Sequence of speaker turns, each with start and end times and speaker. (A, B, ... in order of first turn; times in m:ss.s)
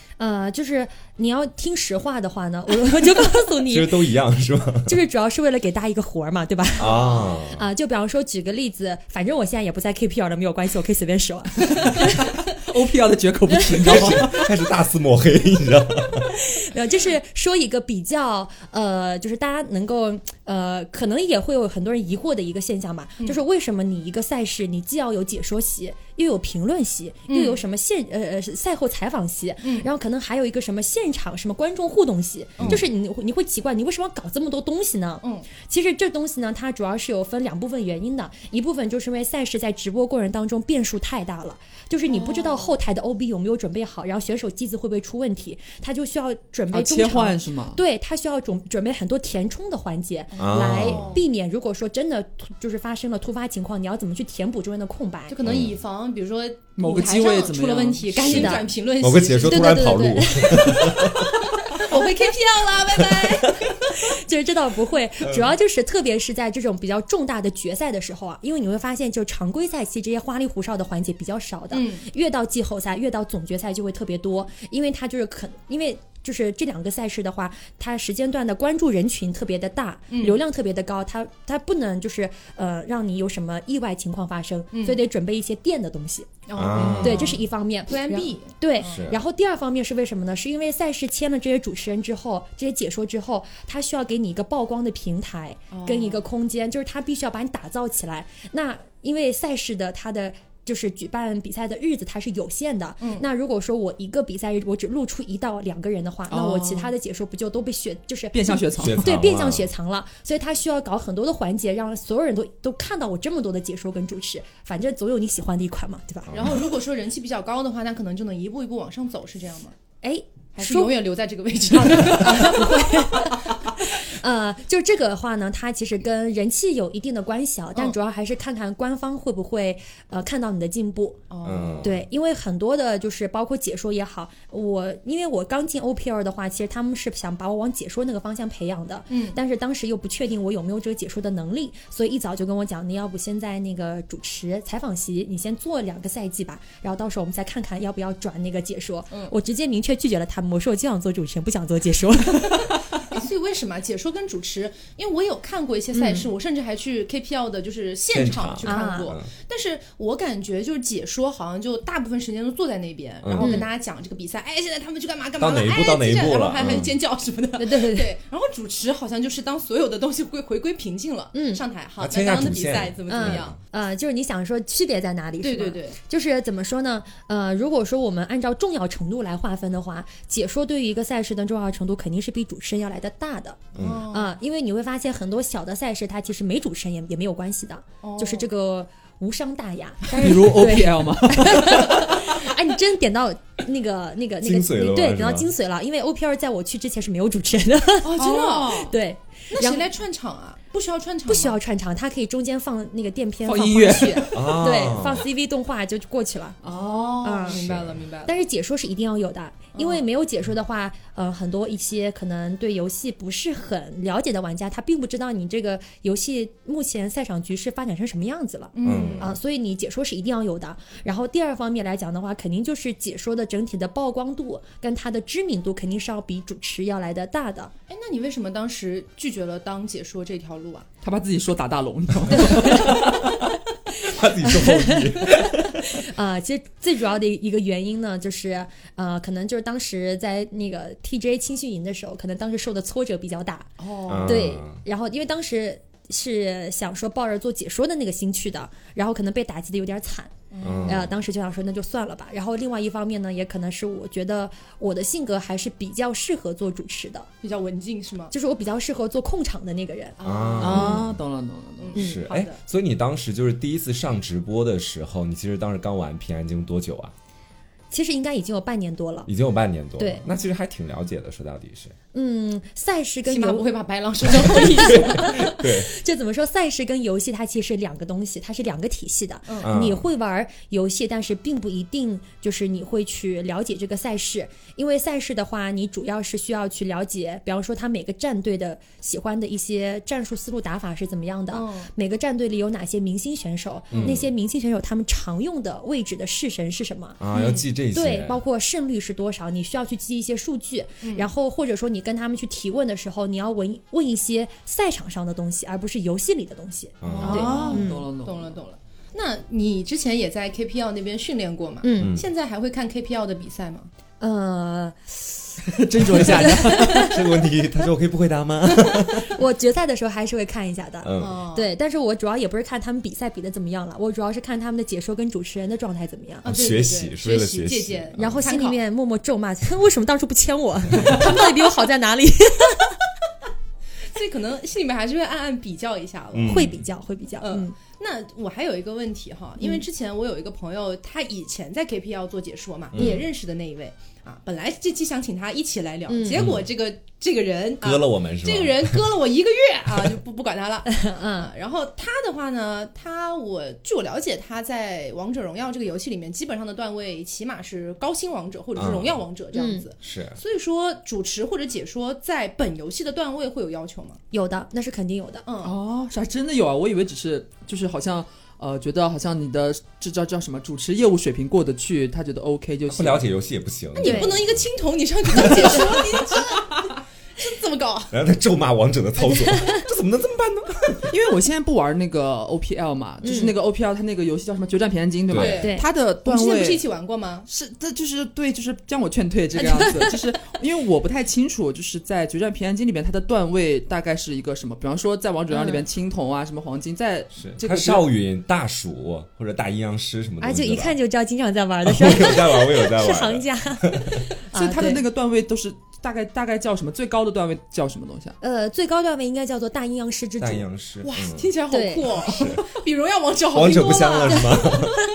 0:00.2-0:04.0 A
0:03.7-0:04.9 B
0:04.8-0:07.0 A
0:06.8-0:07.6 B
0:06.8-0:07.4 C
0:07.6-0:12.2 A
0:11.6-0:14.5 D
0:13.8-0:16.3 B
0:16.3-0:55.4 A
0:27.3-0:27.6 C
0:29.6-0:29.9 C
0:32.6-0:32.8 B
0:35.2-0:35.5 C
0:42.0-0:42.8 C
0:46.7-0:47.8 D
0:50.3-0:51.2 C
0:50.4-0:51.2 B
0:55.3-1:04.0 C
0:55.4-0:55.8 B
0:56.8-0:58.5 D
0:58.2-1:01.3 B
0:58.2-0:58.7 A
0:59.4-1:01.0 A
1:03.0-1:03.5 B
1:03.9-1:56.4 A
1:05.2-1:05.6 B
1:11.7-1:12.0 C
1:20.1-1:20.4 C
1:24.7-1:25.0 C
1:26.5-1:29.1 C
1:26.5-1:27.4 B
1:28.8-1:29.2 B
1:35.7-1:36.3 C
1:43.0-1:43.2 C
1:46.3-1:46.9 D
1:48.3-1:49.0 D
1:48.8-1:49.7 B
1:56.3-1:56.6 B
1:56.3-1:59.7 C
2:00.0-2:01.0 A
2:00.6-2:03.5 C
2:01.7-2:11.2 A
2:11.3-2:12.0 C
2:11.4-2:12.0 B
2:11.8-2:32.9 A
2:19.1-2:19.4 C
2:33.0-2:53.6 C
2:35.9-2:36.3 A
2:38.1-2:39.3 B
2:38.6-2:39.1 A
2:43.2-2:43.6 B
2:43.4-2:43.7 A
2:45.4-2:46.9 B
2:47.6-2:48.1 A
2:51.3-2:51.6 A
2:52.0-2:53.6 B
2:53.1-3:19.8 A
2:55.4-2:56.0 C
3:03.7-3:04.1 B
3:03.7-3:04.3 C
3:08.0-3:08.4 C
3:10.1-3:12.2 D
3:14.4-3:15.5 B
3:18.0-3:18.9 C
3:18.2-3:18.9 D
3:19.5-3:21.6 C
3:21.3-3:26.6 A
3:23.4-3:24.5 D
3:24.3-3:25.3 B
3:26.6-3:27.3 D
3:26.8-3:28.4 C
3:27.2-3:27.6 A
3:27.5-3:28.0 B
3:28.3-3:47.7 A
3:29.7-3:30.0 C
3:38.7-3:39.4 C
3:38.8-3:39.4 B
3:47.9-3:50.9 C
3:51.0-3:53.4 D
3:52.5-3:52.9 A
3:52.8-3:53.2 B
3:54.0-3:56.0 B
3:54.4-4:03.7 A
4:03.8-4:04.4 C
4:04.1-4:04.8 B
4:04.2-4:10.3 A
4:10.5-4:11.0 C
4:10.6-4:11.1 B
4:10.9-4:17.3 A
4:17.4-4:18.3 C
4:18.3-4:20.2 A
4:20.2-4:21.0 C
4:20.2-4:21.2 B
4:20.6-4:22.0 D
4:21.8-4:22.6 C
4:21.9-4:27.1 B
4:22.0-4:22.5 A
4:27.9-4:29.3 A
4:29.3-4:31.9 B
4:30.0-4:30.2 A
4:32.1-4:33.7 A
4:33.3-4:35.5 C
4:34.2-4:57.2 A
4:34.4-4:35.9 B
4:39.5-4:39.7 C
4:39.6-4:40.1 B
4:51.5-4:51.9 C
4:53.9-4:54.3 B
4:57.2-4:58.4 B
4:57.3-4:57.6 C
4:57.9-5:08.1 A
5:01.0-5:01.3 C
5:07.0-5:07.8 B
5:07.1-5:08.6 D
5:07.2-5:13.9 C
5:11.8-5:12.2 A
5:12.0-5:12.2 B
5:14.2-5:15.6 A
5:15.7-5:17.2 D
5:16.1-5:17.2 A
5:16.2-5:19.3 B
5:18.7-5:26.5 A
5:21.0-5:21.4 B
5:21.2-5:21.7 C
5:26.4-5:28.8 C
5:26.4-5:28.4 B
5:28.2-5:33.0 A
5:34.1-5:36.7 C
5:36.3-5:36.8 B
5:36.5-5:37.7 A
5:37.4-6:04.2 C
5:42.9-5:43.2 B
5:46.1-5:46.4 A
5:46.3-5:46.6 B
5:47.8-5:49.0 B
5:50.9-5:51.5 A
5:58.8-5:59.2 B
5:59.5-5:59.8 A
6:00.0-6:00.4 B
6:04.3-6:05.4 A
6:05.4-6:05.8 C
6:05.6-6:13.3 D
6:12.9-6:14.6 B
6:14.0-6:18.1 C
6:14.0-6:14.4 A
6:15.3-6:16.0 B
6:18.1-6:21.1 B
6:21.0-6:26.8 D
6:23.2-6:23.5 A
6:25.3-6:25.7 B
6:25.3-6:27.5 C
6:25.6-6:25.9 A
6:27.5-6:38.1 D
6:29.6-6:30.1 A
6:35.5-6:35.8 A
6:37.4-6:41.0 B
6:40.4-6:45.0 A
6:41.8-6:44.2 B
6:44.5-6:48.4 D
6:48.4-6:50.6 A
6:50.4-6:51.5 B
6:51.0-6:54.7 C
6:51.7-6:52.2 A
6:52.2-6:52.6 B
6:53.5-6:55.0 B
6:54.3-6:54.9 A